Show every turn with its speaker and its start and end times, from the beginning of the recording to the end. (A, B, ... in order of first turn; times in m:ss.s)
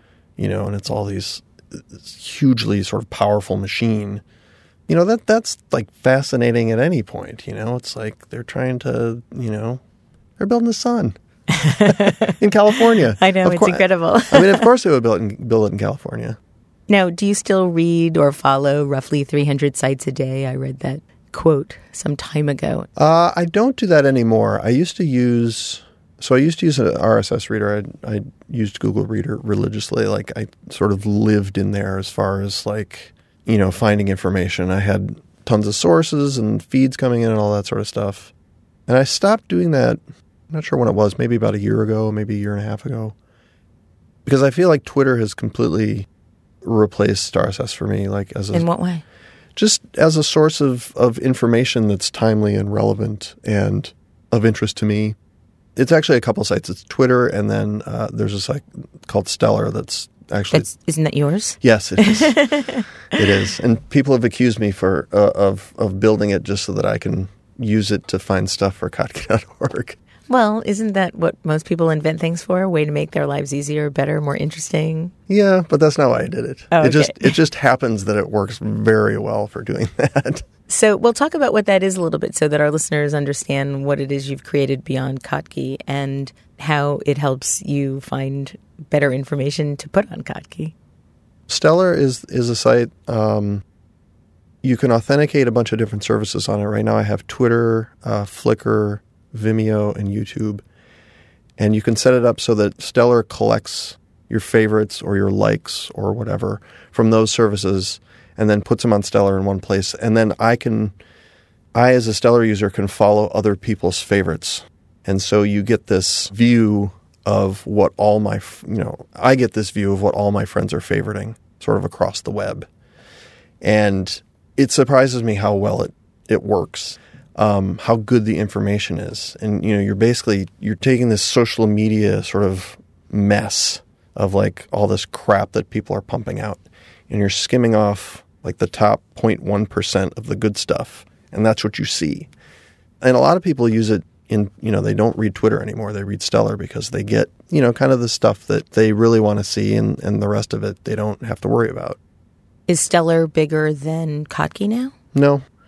0:00.4-0:04.2 A
0:04.9-0:09.8 A
0:10.4-0:11.1 A
0:11.5-0:14.7 B
0:11.9-0:16.4 A
0:16.9-0:22.9 B
0:23.0-0:38.3 A
0:38.9-0:43.1 A
0:44.2-0:46.1 A
0:46.6-0:48.6 A
0:48.5-0:49.0 B
0:49.6-0:55.2 A
0:55.8-1:00.7 A
1:00.5-1:03.2 B
1:01.6-1:02.5 A
1:03.1-1:10.0 A
1:10.3-1:15.1 B
1:15.3-1:20.4 A
1:16.7-1:17.4 B
1:20.7-1:30.7 B
1:31.5-1:33.6 A
1:34.6-1:40.6 A
1:41.6-1:50.9 A
1:51.8-2:02.7 A
2:03.6-2:22.3 A
2:23.0-2:32.0 A
2:32.7-2:34.9 B
2:35.1-2:35.4 A